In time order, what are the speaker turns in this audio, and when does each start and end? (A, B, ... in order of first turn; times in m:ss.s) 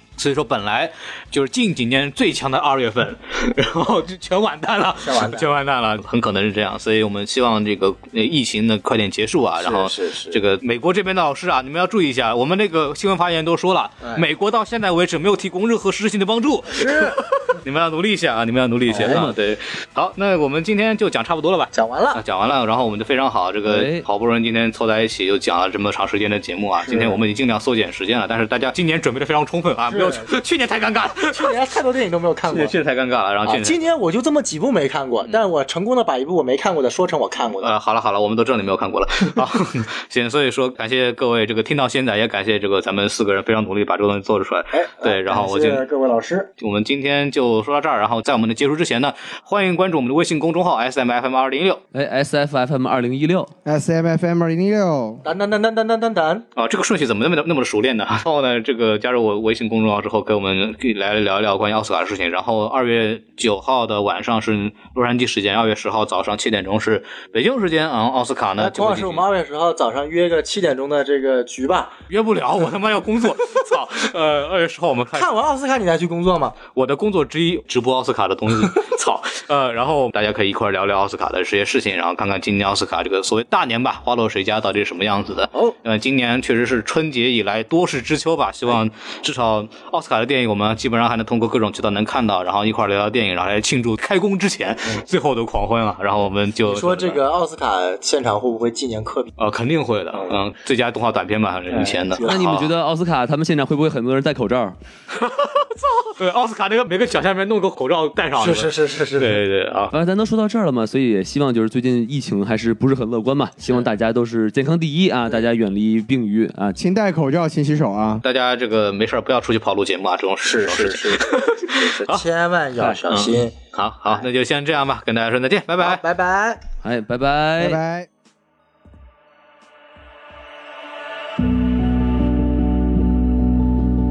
0:00.2-0:31.5 A
0:05.0-0:05.5 B
0:09.6-0:10.4 B
0:16.8-0:17.2 B
0:18.9-0:19.3 B
0:19.0-0:19.4 C
0:21.7-0:22.2 B
0:23.7-0:24.1 C
0:26.9-0:27.2 B
0:29.9-0:30.3 B
0:31.2-0:32.7 B
0:32.5-0:33.9 A
0:33.5-0:37.7 B
0:37.6-0:45.8 A
0:44.7-0:46.5 B
0:46.6-0:51.8 A
0:51.9-0:53.5 C
0:53.6-0:55.2 D
0:55.2-0:56.4 B
0:56.6-1:09.3 A
1:08.6-1:12.0 B
1:12.1-1:15.3 A
1:15.1-1:16.6 B
1:16.7-1:37.2 A
1:36.7-1:39.3 B
1:39.4-1:42.7 A
1:41.7-1:42.4 B
1:42.2-1:44.8 C
1:45.2-1:49.9 A
1:48.4-1:49.4 B
1:49.9-1:56.8 C
1:53.6-1:53.9 B
1:56.8-1:58.2 D
1:58.2-2:02.2 A
2:00.4-2:03.6 B
2:03.1-2:06.0 A
2:05.8-2:06.6 B
2:06.8-2:07.8 C
2:07.6-2:08.1 D